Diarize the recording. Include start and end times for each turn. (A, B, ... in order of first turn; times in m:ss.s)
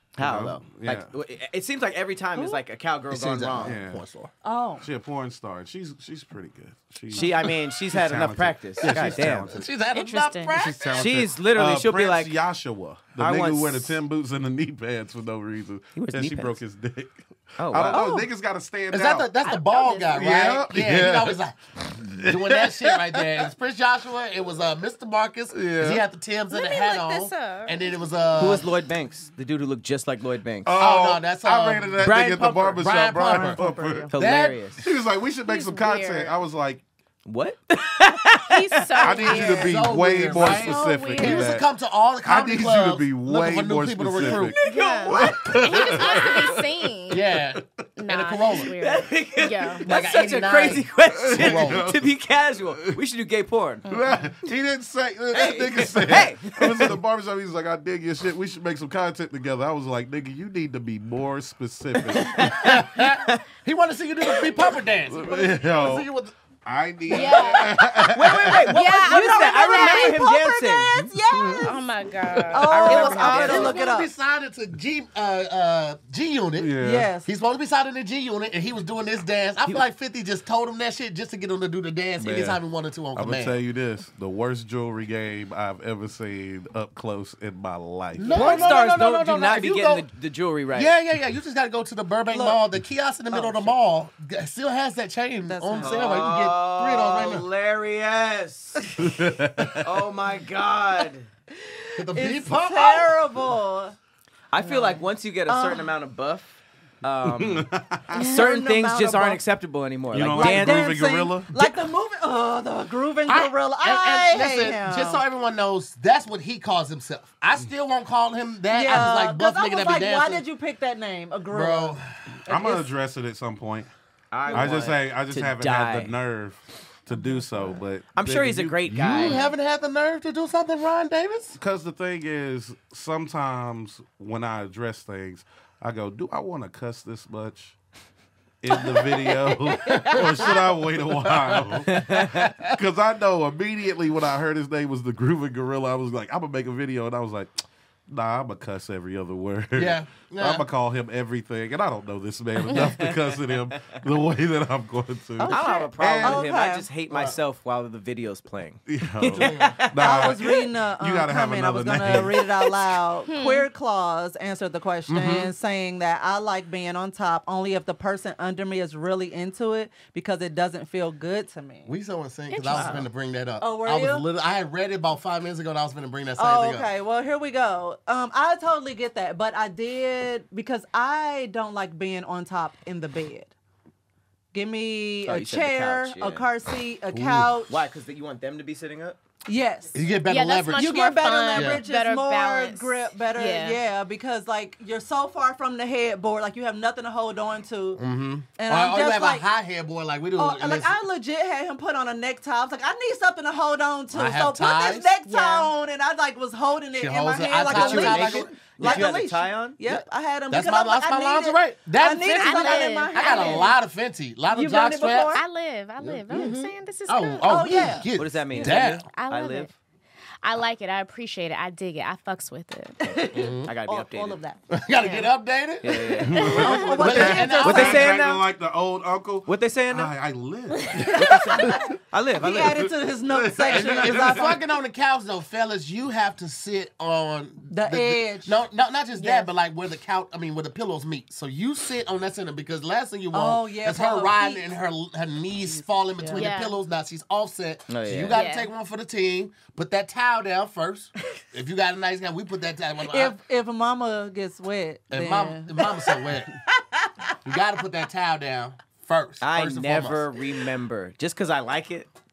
0:00.2-0:03.8 A
0:00.2-0:01.1 B
0:02.4-0:02.6 C
0:03.1-0:04.3 D
0:03.6-0:04.0 B
0:04.4-0:04.9 C
0:04.8-0:09.6 B
0:07.1-0:09.5 A
0:08.9-0:11.2 D
0:09.9-0:10.7 E
0:10.5-0:19.3 B
0:11.0-0:12.4 A
0:13.2-0:14.0 A
0:16.0-0:16.6 A
0:17.6-0:18.1 A
0:17.9-0:18.2 C
0:18.9-0:28.7 D
0:19.4-0:20.2 E
0:20.1-0:23.5 B
0:25.5-0:26.0 B
0:26.5-0:27.9 E
0:28.4-0:30.8 A
0:30.6-0:34.2 B
0:30.8-0:32.0 D
0:32.0-0:32.8 A
0:32.7-0:33.6 D
0:33.2-0:34.1 C
0:34.1-0:34.8 A
0:34.1-0:34.6 D
0:34.8-0:36.8 B
0:35.5-0:36.4 E
0:37.2-0:39.2 A
0:38.4-0:41.6 E
0:39.0-0:41.6 B
0:39.3-0:44.6 D
0:42.2-0:46.7 B
0:44.2-0:46.5 A
0:44.6-0:47.3 E
0:47.1-0:48.7 D
0:48.0-0:49.9 E
0:48.8-0:53.8 A
0:49.8-0:51.9 D
0:51.1-0:52.1 B
0:53.9-1:02.6 B
0:55.3-0:57.0 A
1:02.0-1:03.4 A
1:02.4-1:06.3 D
1:05.1-1:06.1 B
1:06.6-1:08.7 B
1:07.1-1:07.7 D
1:07.1-1:08.1 E
1:08.1-1:11.1 A
1:08.7-1:10.3 E
1:08.8-1:11.8 C
1:11.3-1:11.7 B
1:11.6-1:13.8 E
1:12.2-1:12.6 B
1:12.5-1:14.1 C
1:12.5-1:13.8 A
1:13.2-1:16.7 D
1:16.6-1:17.1 B
1:16.8-1:17.3 C
1:17.2-1:23.6 D
1:22.2-1:22.6 B
1:23.1-1:28.6 B
1:28.2-1:30.0 D
1:28.3-1:30.9 A
1:30.7-1:37.5 D
1:32.3-1:32.6 C
1:33.3-1:33.7 C
1:35.5-1:36.1 C
1:35.8-1:39.0 A
1:39.0-1:40.0 B
1:39.8-1:41.3 A
1:42.0-1:43.2 D
1:42.1-1:44.0 C
1:44.5-1:46.5 A
1:44.6-1:45.9 C
1:47.0-1:51.0 A
1:47.2-1:48.2 B
1:48.1-1:48.6 E
1:48.3-1:49.4 C
1:50.1-1:51.5 B
1:50.2-1:55.2 C
1:53.3-2:00.4 D
1:58.7-2:02.9 C
2:01.5-2:02.1 D
2:02.5-2:03.9 B
2:04.3-2:06.1 A
2:04.5-2:04.8 C
2:04.5-2:09.4 B
2:07.1-2:07.8 C
2:08.2-2:09.5 A
2:09.1-2:11.6 D
2:11.6-2:17.8 B
2:18.6-2:36.5 B
2:19.9-2:20.6 D
2:21.2-2:22.8 D
2:21.9-2:22.5 A
2:29.8-2:30.7 D
2:32.7-2:34.0 A
2:35.4-2:36.9 C
2:35.5-2:40.6 A
2:37.1-2:37.4 D
2:38.9-2:42.4 B
2:39.2-2:39.8 D
2:40.0-2:51.9 C
2:42.1-2:42.7 A
2:43.3-2:43.7 E
2:45.1-2:45.5 D
2:51.9-2:56.9 D
2:52.5-2:53.1 E
2:53.6-2:54.3 C
2:56.4-3:03.5 C
3:04.5-3:07.7 C
3:05.2-3:06.5 A
3:07.1-3:07.5 D
3:07.7-3:09.2 A
3:09.5-3:10.0 C
3:09.9-3:11.0 D
3:10.2-3:13.8 E
3:10.7-3:18.0 C
3:11.5-3:11.8 D
3:18.0-3:21.0 D
3:18.6-3:19.5 C
3:20.4-3:33.8 C
3:24.1-3:25.1 D
3:25.3-3:25.7 E
3:27.0-3:29.2 D
3:27.7-3:30.0 A
3:30.5-3:35.4 D
3:32.4-3:33.8 E
3:34.5-3:35.4 C
3:35.3-3:37.9 E
3:36.0-3:39.0 D
3:37.5-3:38.1 C
3:38.2-3:39.7 A
3:38.6-3:39.7 E
3:40.4-3:43.0 E
3:43.0-3:44.6 C
3:43.3-3:43.7 D
3:43.6-3:44.4 A
3:44.7-3:48.1 D
3:45.0-3:45.3 E
3:45.8-3:48.5 A
3:46.2-3:51.9 B
3:46.4-3:47.4 E
3:46.6-3:48.2 C
3:49.5-3:50.1 A
3:50.8-3:51.0 E
3:51.0-3:54.6 C
3:51.1-3:52.9 A
3:52.8-3:54.6 B
3:53.7-4:13.4 D
3:57.7-3:58.6 C
4:03.3-4:04.7 C
4:05.8-4:06.4 C
4:06.4-4:06.8 E
4:07.9-4:08.4 A
4:08.3-4:08.7 E
4:13.0-4:17.1 C
4:15.1-4:16.6 D
4:17.4-4:20.3 D
4:19.4-4:22.1 A